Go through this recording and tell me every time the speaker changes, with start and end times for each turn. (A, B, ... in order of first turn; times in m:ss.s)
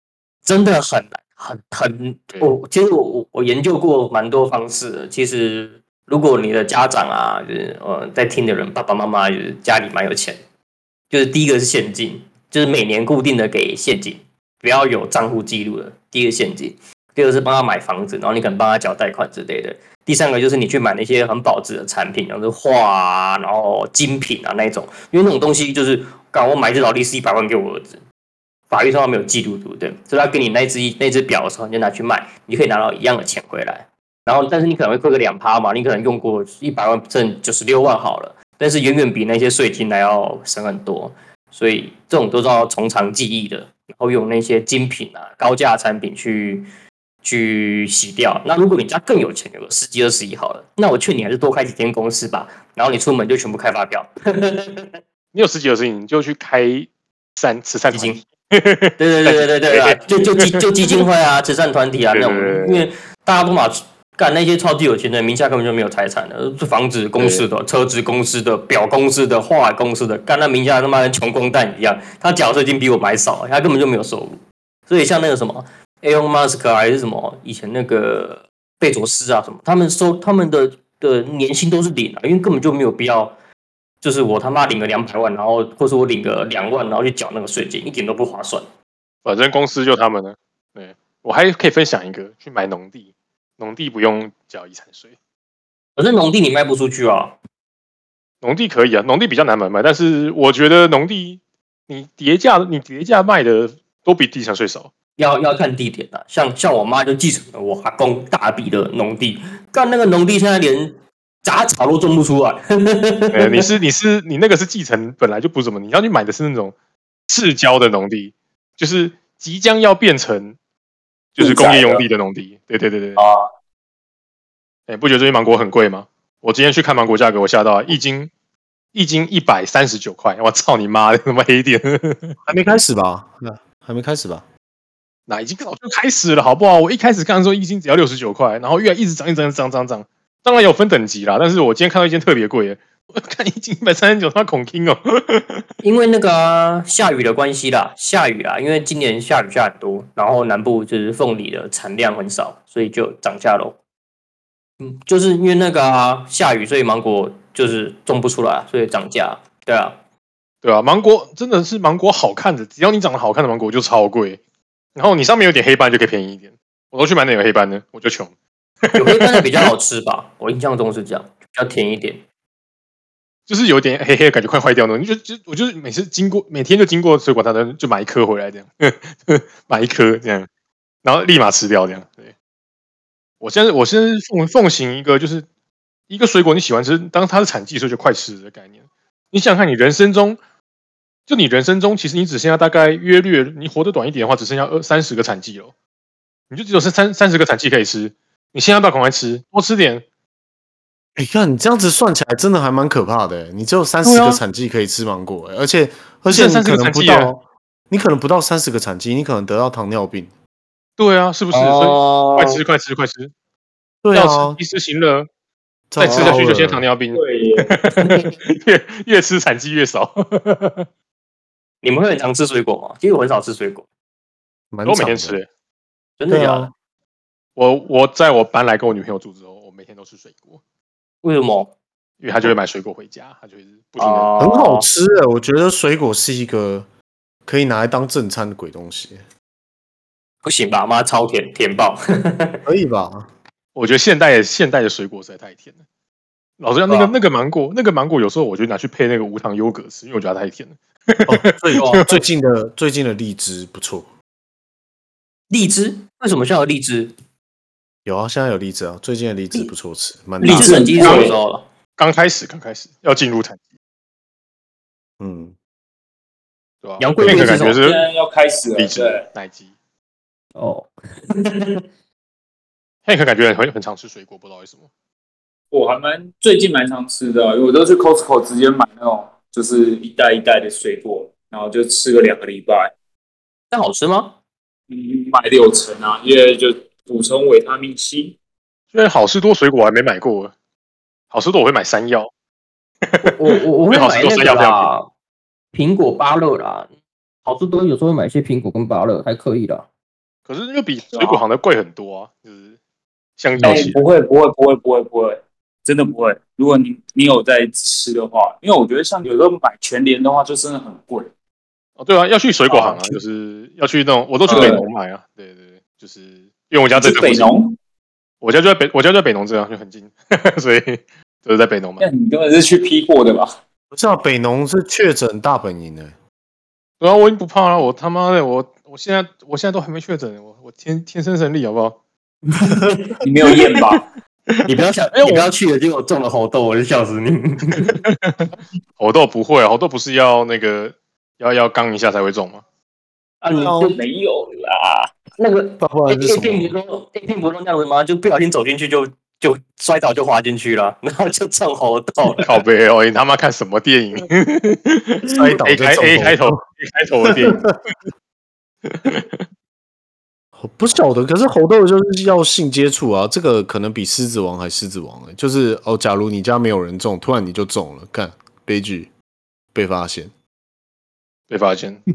0:00.4-0:10.4 A
0:11.1-0:28.0 A
0:28.7-0:46.7 A
0:47.2-0:54.9 A
0:55.3-1:01.0 B
0:57.9-0:58.2 A
0:59.0-1:14.4 A
1:02.1-1:02.9 B
1:07.2-1:07.5 B
1:14.9-1:23.4 A
1:24.0-1:28.6 A
1:29.2-1:35.1 B
1:36.0-1:37.4 A
1:38.4-1:44.9 B
1:45.2-1:53.7 A
1:53.3-1:56.7 B
1:57.3-2:00.6 B
2:01.4-2:03.2 B
2:01.4-2:02.1 C
2:03.2-2:03.5 C
2:04.9-2:08.3 B
2:08.9-2:12.4 B
2:12.4-2:14.4 D
2:15.3-2:25.6 B
2:25.8-2:33.8 A
2:34.8-2:40.0 A
2:40.6-2:44.4 B
2:45.0-2:48.3 B
2:48.9-2:49.7 B
2:49.0-2:52.2 A
2:53.5-3:00.5 B
3:01.0-3:02.3 B
3:03.4-3:05.5 B
3:06.1-3:08.7 B
3:09.3-3:10.4 B
3:11.3-3:15.7 B
3:16.5-3:20.0 B
3:21.2-3:30.3 D
3:24.0-3:24.4 B
3:26.3-3:27.3 B
3:31.0-3:33.3 B
3:31.5-3:32.6 A
3:34.0-3:34.6 D
3:34.1-3:35.3 B
3:35.9-3:36.9 D
3:36.0-3:40.8 B
3:36.0-3:36.4 A
3:37.1-3:37.8 C
3:38.0-3:38.3 A
3:41.8-3:43.8 A
3:44.7-3:45.4 D
3:44.8-3:45.5 B
3:46.2-3:46.7 A
3:46.3-3:46.7 D
3:47.6-3:50.6 B
3:51.2-3:51.7 A
3:52.2-3:54.3 B
3:54.0-3:54.9 A
3:54.4-3:56.9 D
3:57.5-3:59.2 D
4:00.4-4:02.6 A
4:02.7-4:03.3 D
4:03.8-4:05.7 B
4:06.6-4:12.0 B
4:11.3-4:14.1 D
4:11.8-4:12.2 A
4:15.5-4:17.1 A
4:18.1-4:21.3 D
4:20.4-4:21.4 C
4:20.4-4:21.7 A
4:22.0-4:23.6 B
4:25.2-4:25.6 D
4:26.8-4:28.0 B
4:27.0-4:27.8 A
4:27.3-4:29.3 C
4:28.8-4:29.7 B
4:30.6-4:31.8 A
4:33.1-4:34.9 B
4:35.7-4:42.9 C
4:43.7-4:44.4 A
4:44.9-4:48.4 C
4:48.9-4:50.5 B
4:51.3-4:52.3 B
4:53.0-4:54.9 B
4:53.2-4:55.1 A
4:55.7-4:56.9 A
4:57.4-4:59.9 A
5:00.5-5:02.8 B
5:01.1-5:01.4 C
5:03.4-5:03.9 B
5:03.6-5:04.0 D
5:03.6-5:11.3 C
5:12.0-5:17.5 B
5:12.7-5:13.2 C
5:14.5-5:14.8 A
5:14.5-5:14.9 C
5:16.9-5:17.8 C
5:18.4-5:22.1 B
5:22.0-5:23.5 C
5:23.9-5:26.1 D
5:27.0-5:32.0 B
5:32.5-5:33.2 A
5:33.2-5:34.0 C
5:34.7-5:38.0 A
5:35.2-5:35.5 B
5:37.8-5:42.6 B
5:43.4-5:44.0 A
5:43.5-5:43.9 D
5:43.9-5:45.1 C
5:45.4-5:52.5 A
5:45.8-5:46.8 D
5:52.4-5:57.7 B
5:55.3-5:56.6 D
5:57.3-5:57.7 D
5:58.9-5:59.4 B
6:00.6-6:09.1 D
6:09.7-6:10.3 D
6:11.5-6:12.0 B